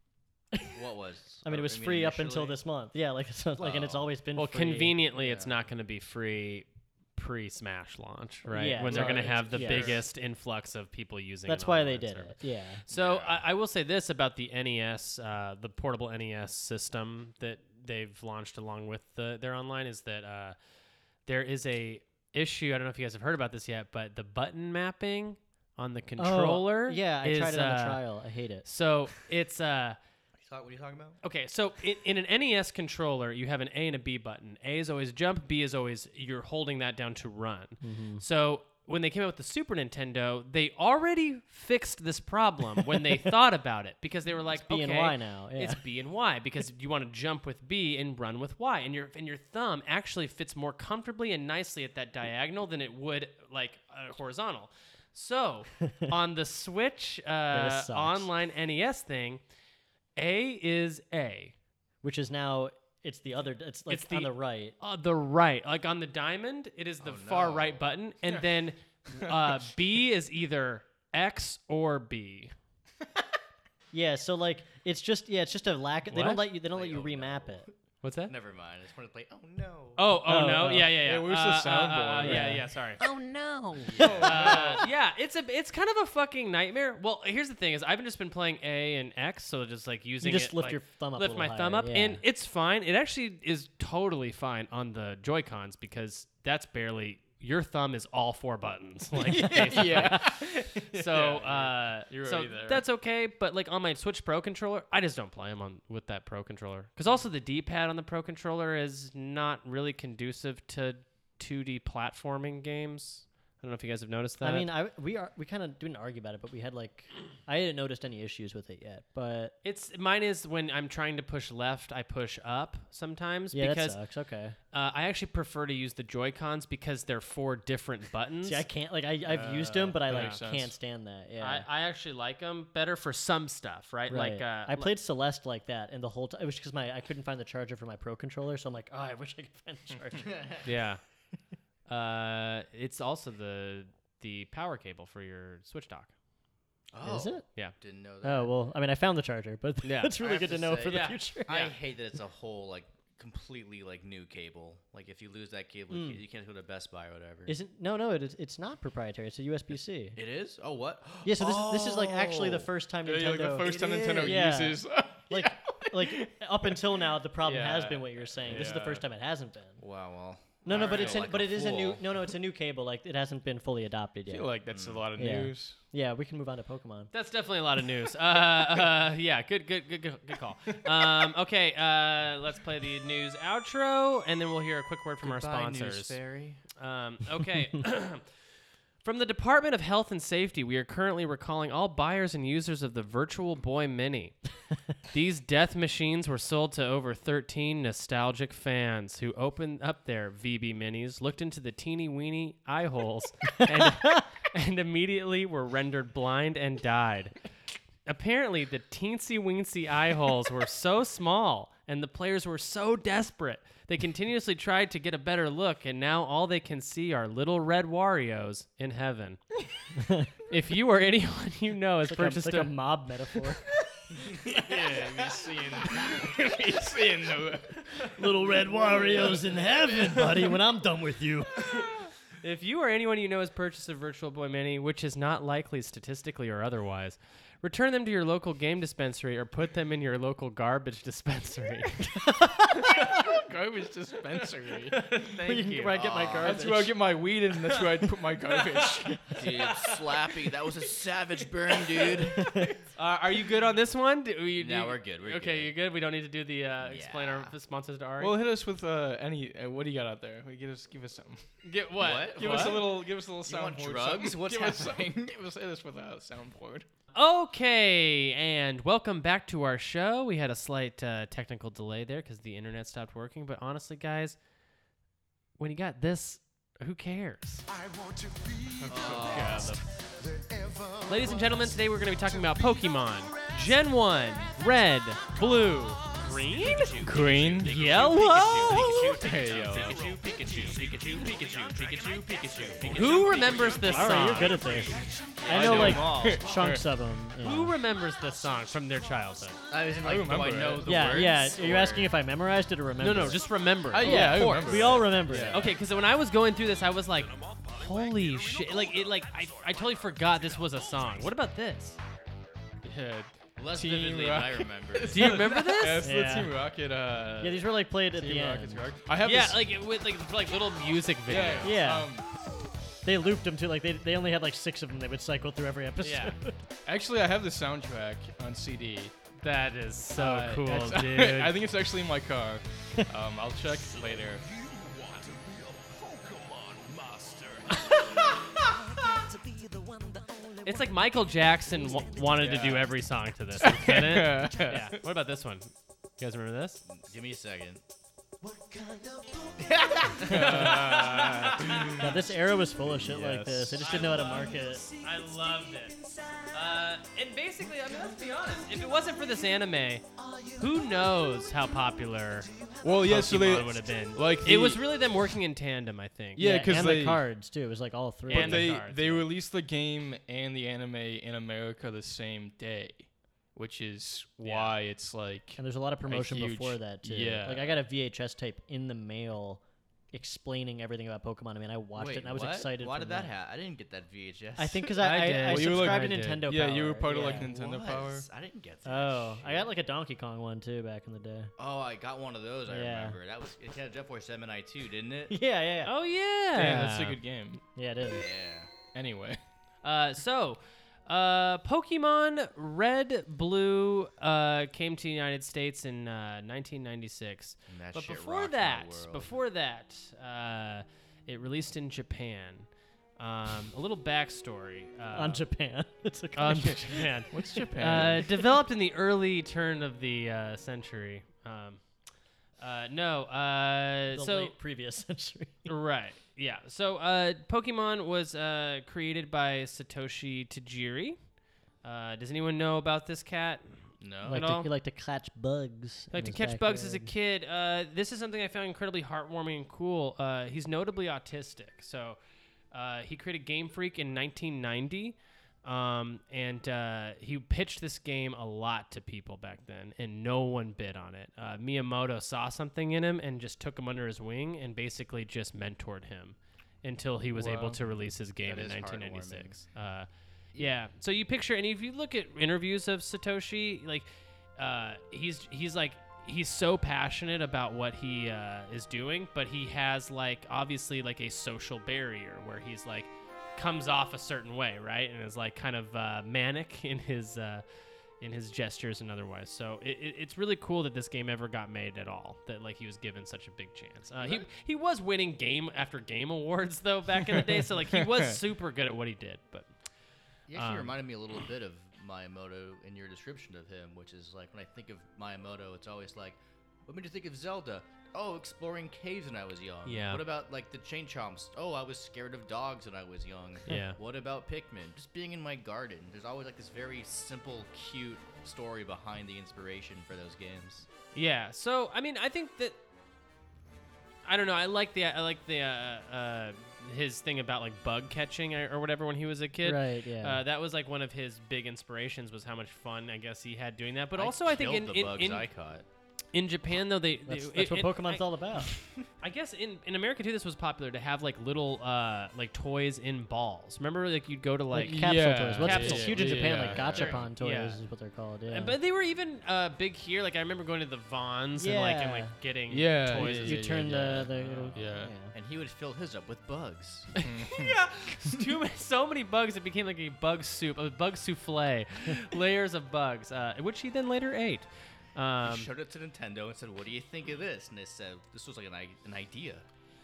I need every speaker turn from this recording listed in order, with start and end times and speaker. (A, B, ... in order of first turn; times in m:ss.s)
0:00.5-0:00.8 A
0:00.7-0:02.6 B
0:01.4-0:05.0 A
0:03.6-0:04.1 B
0:04.3-0:20.6 C
0:05.1-0:05.6 B
0:08.4-0:10.0 A
0:08.8-0:10.0 B
0:11.5-0:12.8 A
0:12.9-0:13.4 B
0:21.2-0:28.0 C
0:26.2-0:28.6 A
0:28.6-0:30.0 C
0:30.4-0:31.2 B
0:31.2-0:59.4 C
0:37.8-0:38.2 A
0:44.4-0:45.8 A
0:57.5-0:58.3 A
1:00.2-1:01.6 C
1:02.0-1:04.8 A
1:03.9-1:12.5 C
1:07.0-1:07.8 B
1:13.9-1:17.6 A
1:16.1-1:16.5 C
1:16.6-1:17.7 B
1:18.0-1:18.3 C
1:18.3-1:20.0 B
1:20.0-1:23.0 C
1:20.2-1:21.0 A
1:21.0-1:22.6 D
1:22.2-1:22.7 A
1:23.0-1:24.0 E
1:23.9-1:24.5 A
1:23.9-1:24.8 D
1:24.2-1:54.7 C
1:30.2-1:32.2 A
1:39.4-1:42.8 D
1:39.5-1:40.1 A
1:54.4-1:59.6 A
1:59.6-2:04.0 C
2:03.5-2:04.6 A
2:04.7-2:08.6 C
2:08.4-2:11.7 A
2:09.2-2:10.7 D
2:10.1-2:10.4 C
2:11.4-2:14.9 C
2:14.1-2:20.6 A
2:20.2-2:20.6 B
2:20.6-2:21.0 C
2:21.9-2:26.1 C
2:26.9-2:28.6 B
2:27.0-2:27.4 A
2:28.2-2:31.7 A
2:29.8-2:30.2 C
2:30.2-2:37.6 B
2:30.8-2:31.7 C
2:35.9-2:36.2 A
2:37.5-2:40.2 A
2:40.1-2:42.7 B
2:41.2-2:49.8 A
2:43.0-2:46.8 D
2:43.7-2:44.4 B
2:47.4-2:49.0 D
2:49.8-2:52.0 B
2:50.6-2:54.5 A
2:50.7-2:51.8 D
2:54.3-2:55.8 D
2:54.7-2:55.1 B
2:55.2-2:57.1 A
2:57.1-3:06.2 C
3:05.2-3:06.6 B
3:06.8-3:08.2 C
3:09.0-3:14.4 C
3:15.1-3:27.4 C
3:23.7-3:24.2 A
3:28.0-3:39.4 C
3:39.9-3:40.3 A
3:40.5-3:42.8 C
3:42.0-3:43.8 A
3:44.3-3:50.5 D
3:48.0-3:52.0 A
3:52.4-4:02.1 C
4:02.1-4:03.4 A
4:02.8-4:05.2 D
4:04.9-4:06.0 C
4:05.2-4:07.0 A
4:05.9-4:06.6 B
4:06.4-4:09.4 D
4:09.4-4:12.6 B
4:09.4-4:10.3 C
4:12.4-4:12.7 A
4:12.9-4:18.3 C
4:14.6-4:15.7 B
4:16.8-4:17.5 B
4:18.2-4:21.5 D
4:21.6-4:22.8 C
4:22.0-4:25.4 B
4:22.1-4:26.9 D
4:27.1-4:34.4 C
4:35.6-4:37.6 C
4:37.7-4:44.6 F
4:38.8-4:39.8 D
4:38.9-4:39.7 B
4:39.2-4:39.8 C
4:41.1-4:47.0 C
4:45.2-4:55.5 F
4:46.6-4:53.8 B
4:47.0-4:47.8 D
4:47.6-4:49.2 C
4:48.9-4:50.2 D
4:52.8-4:54.9 C
4:53.8-4:57.8 A
4:55.4-4:56.5 B
4:55.4-4:56.0 C
4:55.5-4:56.9 D
4:57.4-4:59.6 C
4:58.1-4:58.8 F
4:59.7-5:02.1 B
5:00.0-5:01.2 D
5:00.8-5:03.4 A
5:03.0-5:12.0 C
5:03.9-5:05.7 D
5:04.0-5:05.7 A
5:07.1-5:11.3 F
5:12.8-5:19.6 D
5:13.6-5:15.4 B
5:15.1-5:16.1 C
5:16.0-5:16.6 A
5:17.4-5:18.9 A
5:19.2-5:21.8 C
5:21.3-5:22.2 D
5:21.6-5:22.1 A
5:23.0-5:26.6 A
5:26.0-5:26.3 C
5:26.9-5:29.1 D
5:29.4-5:31.6 C
5:30.1-5:34.4 D
5:33.9-5:38.7 F
5:38.7-5:41.0 E
5:40.6-5:46.8 C
5:42.0-5:42.3 E
5:42.4-5:42.9 D
5:43.6-5:45.0 D
5:46.9-5:47.8 B
5:48.4-5:50.2 E
5:49.6-5:50.6 B
5:50.2-5:54.0 D
5:50.2-5:52.0 C
5:50.4-5:50.8 A
5:52.0-5:54.8 A
5:53.8-5:56.0 C
5:54.0-5:54.5 F
5:54.6-5:56.5 E
5:56.5-6:06.4 C
5:57.7-5:58.7 F
6:00.2-6:00.6 E
6:02.8-6:04.9 D
6:06.4-6:07.2 D
6:06.4-6:08.9 A
6:08.3-6:09.2 C
6:08.3-6:17.8 D
6:14.4-6:14.7 C
6:15.6-6:23.3 A
6:21.9-6:24.9 B
6:24.6-6:27.5 A
6:25.0-6:26.4 C
6:25.3-6:28.3 D
6:27.1-6:29.7 B
6:28.8-6:31.5 A
6:31.6-6:35.4 B
6:32.7-6:33.2 A
6:35.3-6:35.9 A
6:35.8-6:37.2 C
6:36.5-6:37.6 D
6:37.7-6:38.2 A
6:38.0-6:38.7 B
6:38.9-6:39.4 D
6:39.8-6:55.4 C
6:47.7-6:49.3 B
6:55.1-6:57.3 A
6:56.3-7:01.8 C
6:56.5-6:58.4 D
7:02.6-7:04.5 C
7:04.1-7:05.7 A
7:05.6-7:11.2 C
7:11.8-7:14.7 C
7:14.0-7:14.5 B
7:14.2-7:17.1 A
7:16.1-7:22.2 C
7:22.7-7:57.6 C
7:37.4-7:37.8 D
7:38.4-7:39.6 B
7:58.2-8:09.7 C
8:04.2-8:04.4 B
8:10.5-8:30.9 B
8:10.6-8:11.0 C
8:19.8-8:20.2 C
8:23.7-8:24.0 C
8:31.1-8:32.8 C
8:34.2-8:45.5 C
8:39.6-8:40.4 A
8:44.1-8:45.9 B
8:46.3-8:48.2 C
8:47.3-8:48.8 A
8:49.2-8:56.6 C
8:54.7-8:58.8 A
8:54.8-8:57.2 D
8:56.6-8:57.3 B
8:57.4-8:57.8 C
8:58.5-9:03.6 C
9:01.6-9:02.4 A
9:02.7-9:05.1 D
9:03.1-9:05.3 A
9:04.7-9:07.1 B
9:07.2-9:15.7 C
9:07.2-9:07.8 D
9:15.4-9:19.6 B